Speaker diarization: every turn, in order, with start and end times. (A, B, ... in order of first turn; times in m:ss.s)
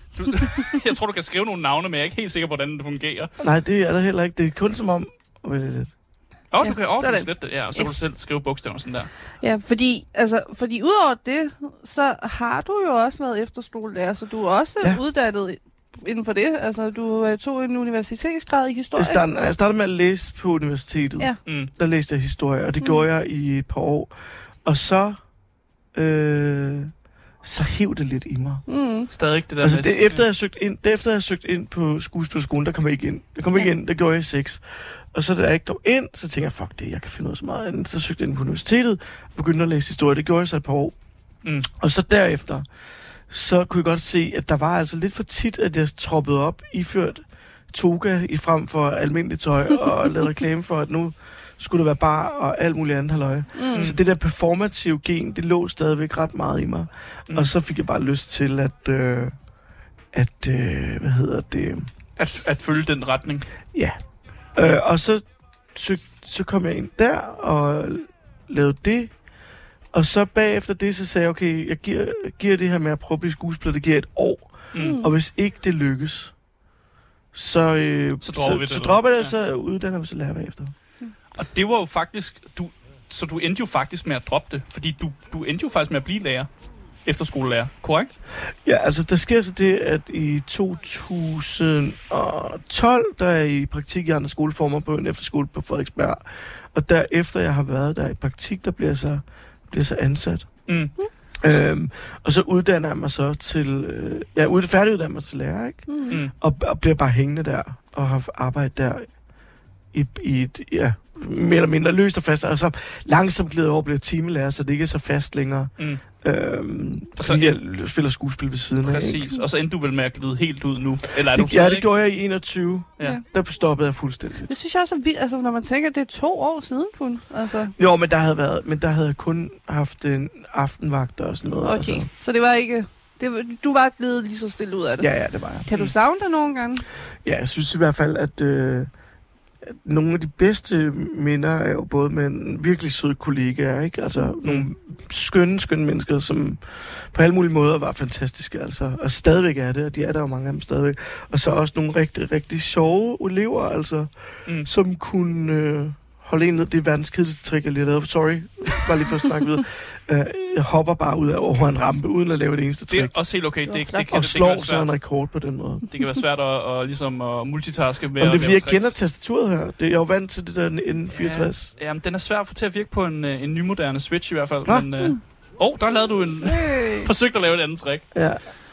0:00.2-0:03.3 A
0:03.4-0:05.9 B
0:06.5-0:09.1 A
0:06.6-0:08.1 C
0:09.4-0:19.2 C
0:19.0-0:24.1 B
0:21.5-0:21.7 A
0:24.6-0:25.2 B
0:26.0-0:26.9 B
0:27.4-0:28.6 B
0:28.7-0:29.1 C
0:29.1-0:30.2 A
0:29.6-0:41.0 B
0:41.4-0:41.7 A
0:41.8-0:42.7 B
0:43.3-0:59.4 B
0:53.6-0:53.9 C
1:00.1-1:01.9 B
1:02.2-1:03.5 A
1:04.6-1:09.1 B
1:09.9-1:16.3 B
1:14.7-1:15.0 A
1:14.8-1:15.1 C
1:17.3-1:20.7 B
1:18.2-1:19.3 A
1:21.4-1:26.5 A
1:27.0-1:28.1 A
1:28.5-1:40.7 B
1:40.7-1:41.6 A
1:41.4-1:49.1 B
1:45.9-1:46.2 C
1:49.9-1:59.2 B
1:57.2-1:57.6 A
1:58.8-2:01.9 A
2:01.2-2:04.5 B
2:04.5-2:07.7 C
2:07.8-2:12.1 B
2:11.6-2:15.1 C
2:15.0-2:15.7 B
2:15.7-2:16.9 C
2:17.2-2:18.9 B
2:19.6-2:43.2 B
2:42.9-2:44.9 A
2:43.7-2:44.1 C
2:44.1-2:45.9 B
2:45.9-2:48.9 A
2:48.2-2:51.7 B
2:51.1-2:58.1 A
2:56.4-2:57.1 C
2:58.1-2:58.4 B